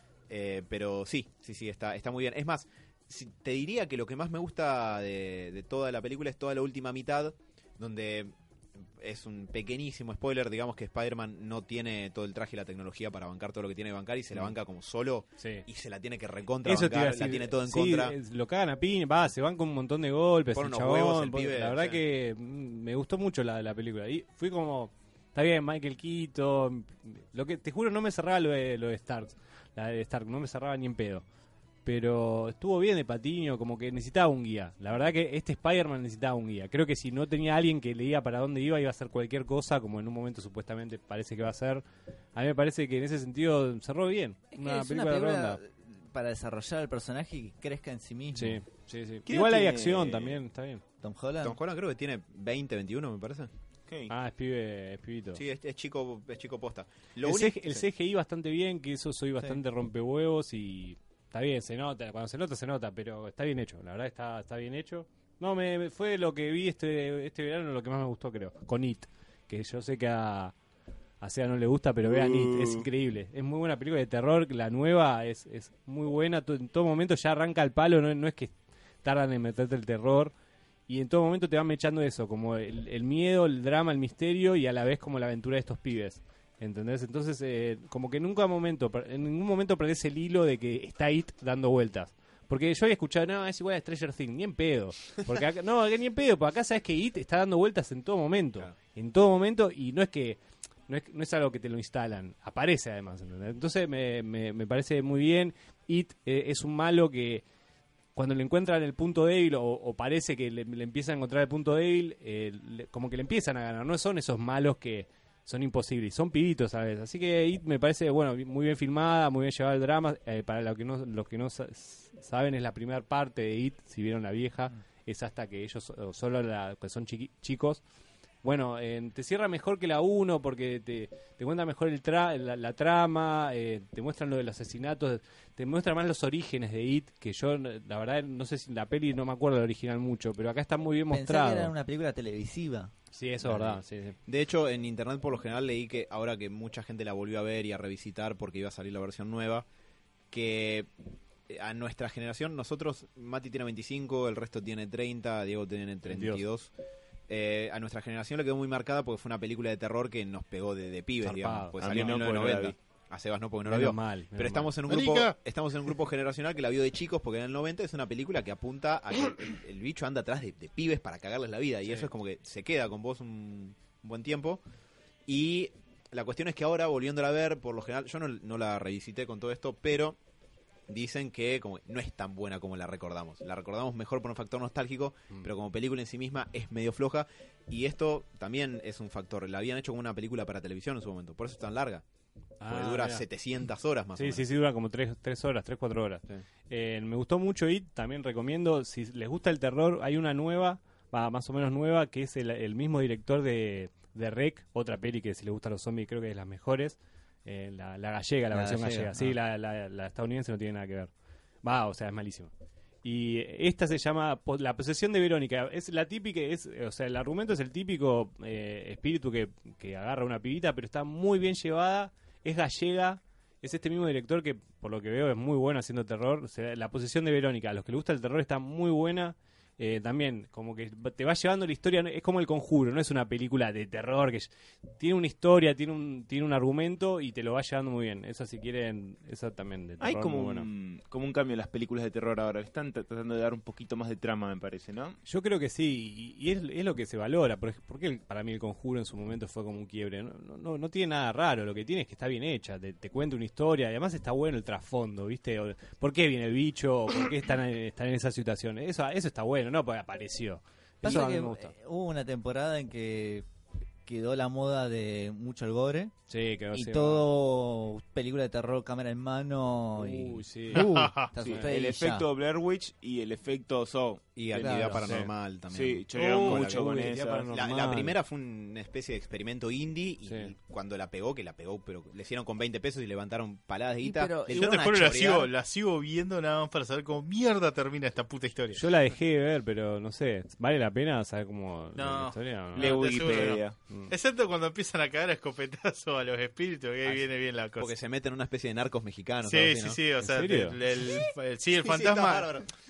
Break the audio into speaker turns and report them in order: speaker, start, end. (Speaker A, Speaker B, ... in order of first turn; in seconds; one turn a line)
Speaker A: 0.3-8.3
Speaker A: 9.0-18.1
Speaker B: 16.6-31.2
Speaker A: 20.5-22.0
Speaker B: 31.8-41.8
Speaker B: 42.3-45.6
Speaker C: 44.5-48.6
Speaker B: 48.3-50.8
Speaker D: 49.3-50.4
Speaker C: 51.0-51.6
Speaker A: 51.4-53.5
Speaker B: 54.1-55.4
Speaker A: 55.3-57.8
Speaker B: 57.2-70.5
Speaker B: 71.2-80.3
Speaker D: 72.0-72.8
Speaker B: 80.9-107.4
Speaker B: 108.1-127.8
Speaker B: 128.4-141.7
Speaker C: 141.1-142.9
Speaker B: 143.1-144.2
Speaker A: 143.4-149.7
Speaker A: 150.3-150.9
Speaker A: 151.5-156.7
Speaker B: 156.0-156.4
Speaker A: 157.3-174.6
Speaker B: 161.2-162.2
Speaker D: 161.8-162.8
Speaker B: 163.7-164.8
Speaker E: 164.8-165.3
Speaker A: 175.2-180.2
Speaker A: 180.9-192.0
Speaker B: 192.6-193.2
Speaker A: 192.6-194.4
Speaker B: 194.2-211.1
Speaker C: 208.5-209.3
Speaker B: 211.6-212.5
Speaker B: 213.0-240.7
Speaker D: 240.0-245.2
Speaker B: 245.2-261.7
Speaker C: 261.0-263.4
Speaker C: 264.1-266.1
Speaker B: 266.3-267.2
Speaker C: 266.7-272.2
Speaker B: 270.0-270.9
Speaker E: 270.7-271.3
Speaker D: 271.4-274.3
Speaker A: 274.4-285.5
Speaker B: 274.5-275.3
Speaker C: 274.6-275.0
Speaker D: 275.7-277.5
Speaker B: 276.1-278.1
Speaker C: 284.0-284.8
Speaker E: 284.5-288.8
Speaker B: 288.8-294.1
Speaker E: 291.9-297.9
Speaker D: 292.7-293.8
Speaker A: 297.8-300.0
Speaker E: 299.4-302.5
Speaker B: 300.2-300.8
Speaker A: 301.8-302.7